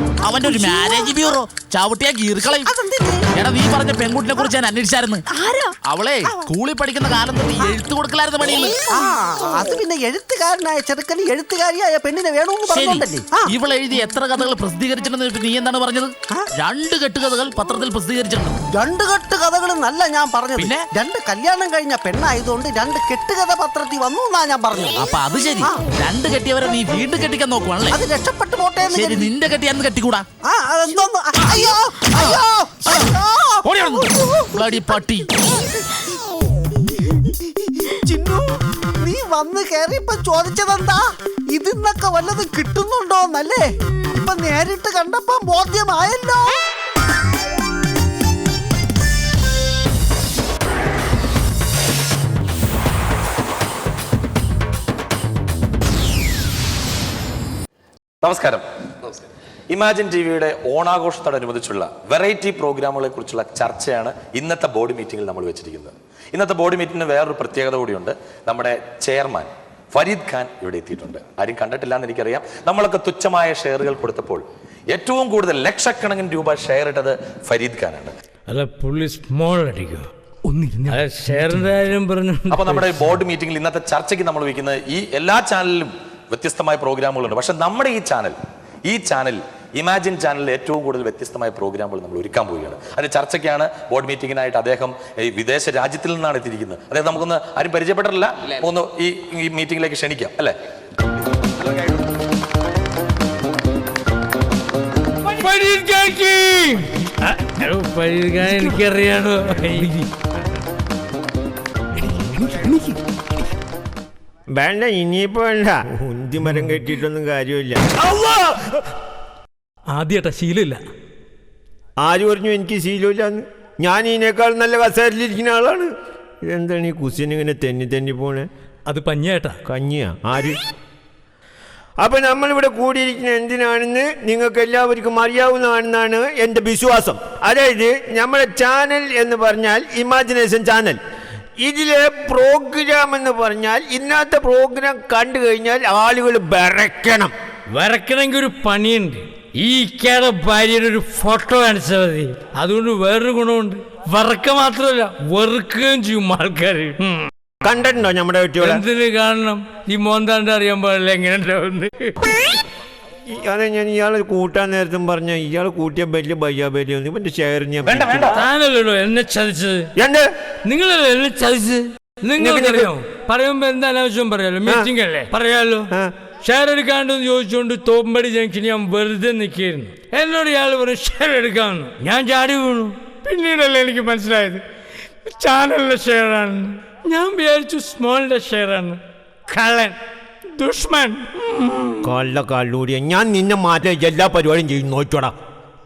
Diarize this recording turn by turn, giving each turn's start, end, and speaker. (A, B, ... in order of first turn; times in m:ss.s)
0:00.2-0:02.7 A
0:00.3-0:01.1 B
0:02.7-0:03.2 B
0:03.3-0:05.2 A
0:05.8-0:08.8 A
0:06.2-0:06.5 B
0:08.4-0:13.6 B
0:12.7-0:18.6 A
0:18.8-0:25.8 B
0:20.6-0:20.8 A
0:25.0-0:28.0 A
0:27.9-0:29.4 B
0:28.8-0:30.2 A
0:30.4-0:35.2 B
0:33.7-0:35.3 A
0:37.0-0:46.6 B
0:58.2-1:18.1 C
1:18.5-1:22.9 D
1:22.5-1:28.4 C
1:28.9-1:40.5 C
1:45.4-1:50.1 D
1:52.4-1:52.8 D
1:54.5-1:58.3 E
1:59.9-2:00.8 D
2:02.0-2:05.9 E
2:06.5-2:08.5 E
2:08.9-2:09.6 D
2:09.7-2:10.6 E
2:12.0-2:21.0 E
2:21.6-2:27.3 E
2:27.8-2:37.3 D
2:37.6-2:38.8 E
2:38.6-2:42.2 D
2:43.3-2:48.4 E
2:47.9-2:48.3 C
2:48.3-2:49.9 D
2:50.0-2:50.3 E
2:50.7-2:55.9 D
2:52.4-2:52.9 E
2:56.4-3:04.6 D
3:05.4-3:10.0 D
3:10.6-3:12.0 D
3:12.0-3:15.3 E